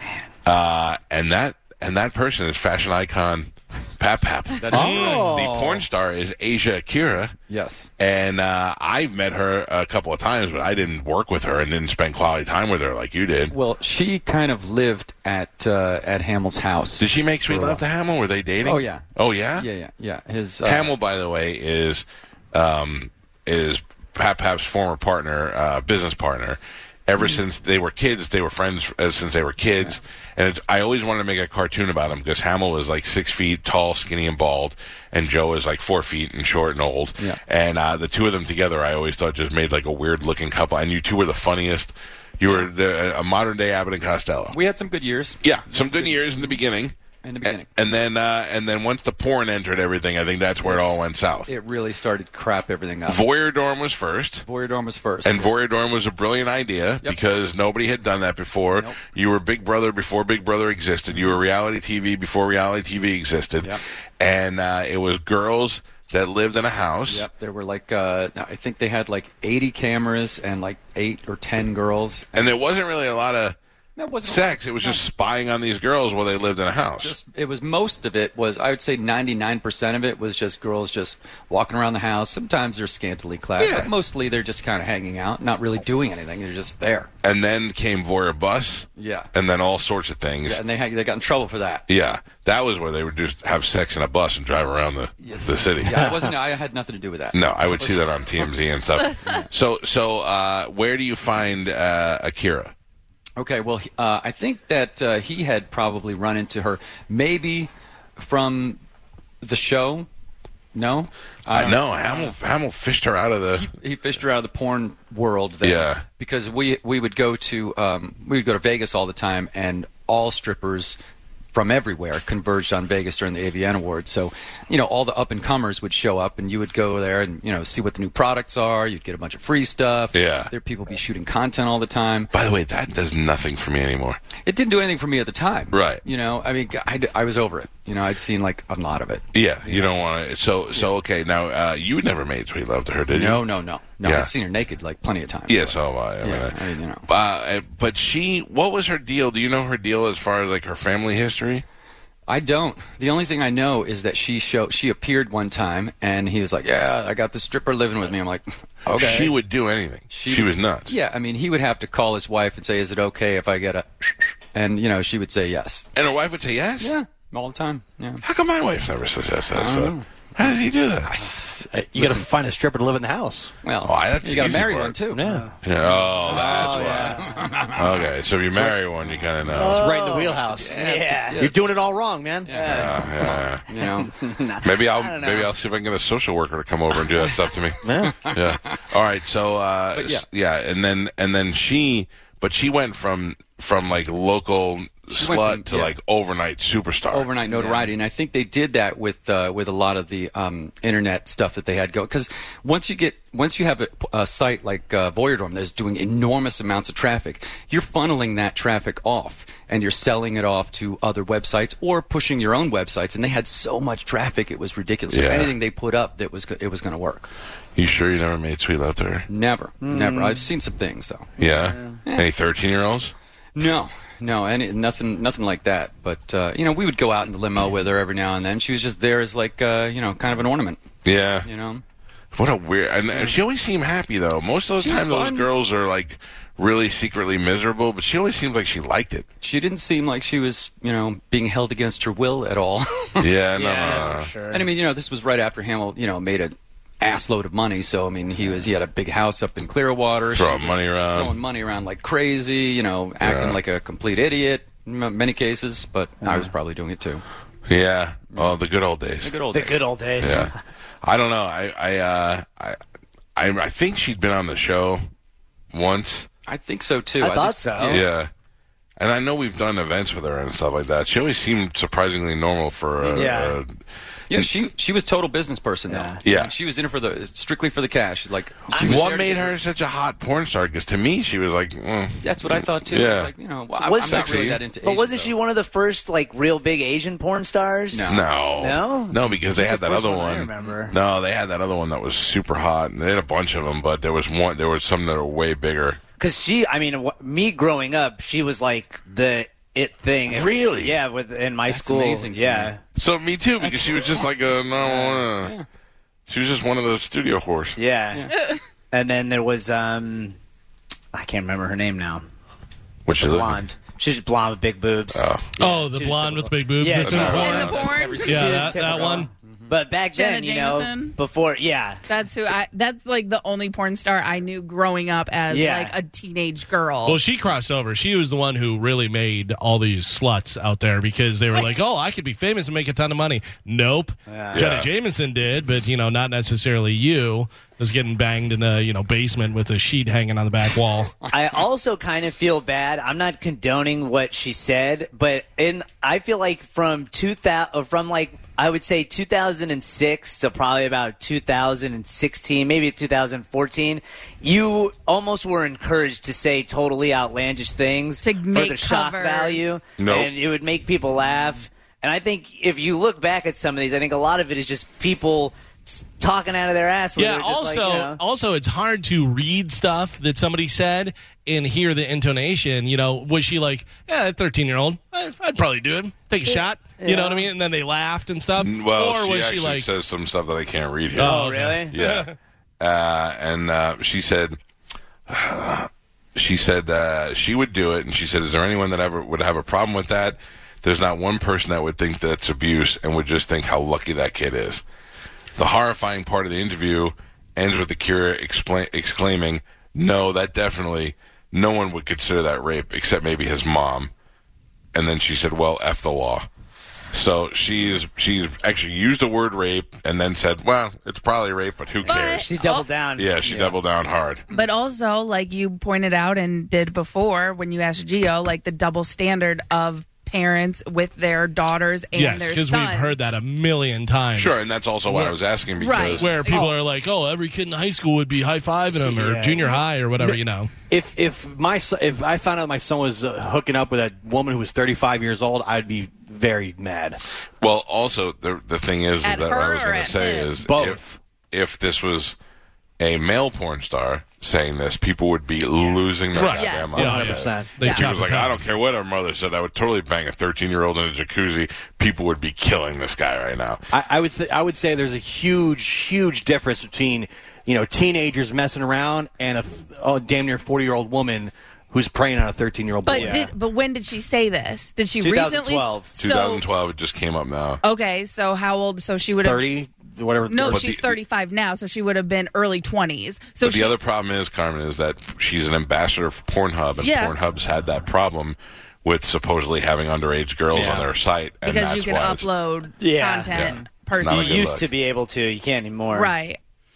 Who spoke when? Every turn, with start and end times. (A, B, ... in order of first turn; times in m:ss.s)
0:00.4-0:07.4 A
0:04.6-0:05.2 B
0:04.7-0:05.8 C
0:04.8-0:05.3 D
0:07.5-0:07.9 B
0:08.0-0:13.6 A
0:13.5-0:17.8 B
0:17.0-0:19.7 A
0:18.6-0:19.1 B
0:19.6-0:20.9 B
0:20.6-0:44.6 A
0:44.5-0:46.6 B
0:45.4-0:51.5 A
0:47.2-0:47.7 B
0:50.6-0:53.2 B
0:53.1-0:54.4 A
0:54.4-0:55.5 B
0:55.2-1:07.3 A
1:01.1-1:01.4 B
1:07.1-1:12.6 B
1:12.4-1:13.6 A
1:14.0-1:15.0 B
1:14.2-1:17.2 A
1:17.0-1:27.1 B
1:23.6-1:23.9 A
1:27.2-1:30.6 A
1:29.0-1:29.3 B
1:30.5-1:31.9 B
1:31.9-1:36.2 A
1:35.2-1:38.0 B
1:37.3-1:42.7 A
1:43.4-1:48.8 B
1:49.4-1:50.1 B
1:50.7-1:52.4 B
1:51.5-1:53.7 A
1:53.5-2:01.0 B
1:55.6-1:56.0 A
2:01.5-2:12.3 B
2:10.1-2:10.5 A
2:12.3-2:14.2 A
2:14.4-2:20.0 B
2:15.7-2:16.0 A
2:19.3-2:23.4 A
2:23.1-2:27.1 B
2:24.0-2:24.3 A
2:25.5-2:31.6 A
2:32.3-2:39.4 B
2:38.9-2:41.0 A
2:40.1-2:45.9 B
2:46.0-2:46.9 A
2:46.8-2:48.2 B
2:48.2-2:51.2 A
2:49.5-2:52.3 B
2:51.7-2:53.5 C
2:53.6-2:55.2 B
2:53.8-2:55.1 A
2:55.1-2:55.5 C
2:55.2-2:55.6 E
2:55.6-2:59.9 A
2:55.8-2:58.1 B
2:56.3-2:57.2 C
2:56.7-2:57.1 E
2:59.6-3:00.8 C
2:59.6-3:01.5 E
3:00.4-3:01.8 B
3:01.4-3:02.6 C
3:02.4-3:04.1 B
3:02.5-3:05.5 E
3:02.6-3:03.6 A
3:04.6-3:17.3 A
3:07.8-3:08.3 C
3:08.0-3:08.8 B
3:10.0-3:10.2 B
3:15.1-3:15.9 B
3:17.1-3:37.3 B
3:35.1-3:35.6 A
3:37.8-3:39.3 A
3:39.3-3:41.3 B
3:39.8-3:40.5 E
3:41.4-3:43.1 A
3:41.7-3:42.0 E
3:43.6-3:50.8 B
3:51.0-3:51.5 A
3:51.4-3:51.8 B
3:52.3-3:59.3 A
3:53.1-3:53.4 B
3:54.8-3:55.5 B
3:59.4-4:03.3 B
4:03.2-4:04.3 A
4:03.6-4:04.7 E
4:03.8-4:17.2 B
4:10.3-4:11.4 A
4:13.2-4:13.6 A
4:16.2-4:16.5 E
4:17.7-4:19.4 A
4:19.2-4:19.9 B
4:19.5-4:20.5 E
4:20.2-4:22.8 A
4:23.4-4:25.1 A
4:25.7-4:26.3 A
4:26.5-4:28.1 B
4:27.2-4:28.1 E
4:27.8-4:28.3 A
4:29.0-4:33.7 A
4:33.1-4:33.6 E
4:34.3-4:39.6 B
4:35.9-4:36.2 E
4:36.2-4:36.5 A
4:38.7-4:39.1 E
4:38.8-4:43.3 A
4:42.2-4:45.4 B
4:43.8-4:51.0 E
4:44.0-4:44.6 A
4:47.9-4:48.2 B
4:48.1-4:56.0 A
4:56.2-5:02.8 E
5:00.3-5:01.0 A
5:01.7-5:02.7 B
5:03.0-5:05.6 A
5:03.6-5:05.7 B
5:04.9-5:05.2 E
5:06.3-5:07.8 A
5:07.8-5:08.4 E
5:08.9-5:10.4 E
5:11.1-5:12.2 E
5:13.1-5:13.6 A
5:13.2-5:22.0 E
5:15.1-5:15.6 A
5:15.6-5:19.3 D
5:17.0-5:17.8 A
5:17.2-5:18.4 F
5:17.4-5:19.7 B
5:20.2-5:21.2 F
5:22.1-5:27.2 F
5:25.5-5:25.9 E
5:27.0-5:41.1 D
5:34.3-5:34.8 E
5:34.5-5:34.9 A
5:41.3-6:08.2 E
5:58.2-5:59.6 F
6:00.0-6:00.3 A
6:07.2-6:19.9 D
6:16.5-6:17.5 E
6:18.6-6:24.6 A
6:21.2-6:22.4 D
6:21.2-6:22.0 E
6:25.3-6:34.8 A
6:35.6-6:44.1 A
6:44.9-6:46.5 A
6:47.1-6:52.5 A
6:52.0-6:52.9 F
6:52.0-6:53.8 E
6:53.2-6:54.4 A
6:54.5-7:03.2 F
7:02.2-7:05.4 D
7:04.4-7:06.6 A
7:05.8-7:06.7 F
7:06.0-7:10.7 D
7:09.0-7:09.8 E
7:10.2-7:17.2 C
7:17.6-7:22.4 A
7:19.2-7:20.5 F
7:20.6-7:21.2 C
7:23.0-7:33.9 A
7:26.3-7:28.6 D
7:26.4-7:28.1 F
7:27.0-7:27.8 C
7:33.9-7:43.5 C
7:43.0-7:46.6 F
7:43.1-7:43.4 E
7:45.2-7:46.1 E
7:46.2-7:47.8 A
7:47.8-7:49.7 F
7:49.4-7:51.0 C
7:50.5-7:53.9 F
7:50.7-7:51.0 A
7:53.6-8:02.5 A
7:57.0-7:57.4 F
8:00.8-8:01.0 C
8:01.6-8:04.6 F
8:03.0-8:06.3 E
8:03.5-8:04.9 A
8:06.1-8:06.6 F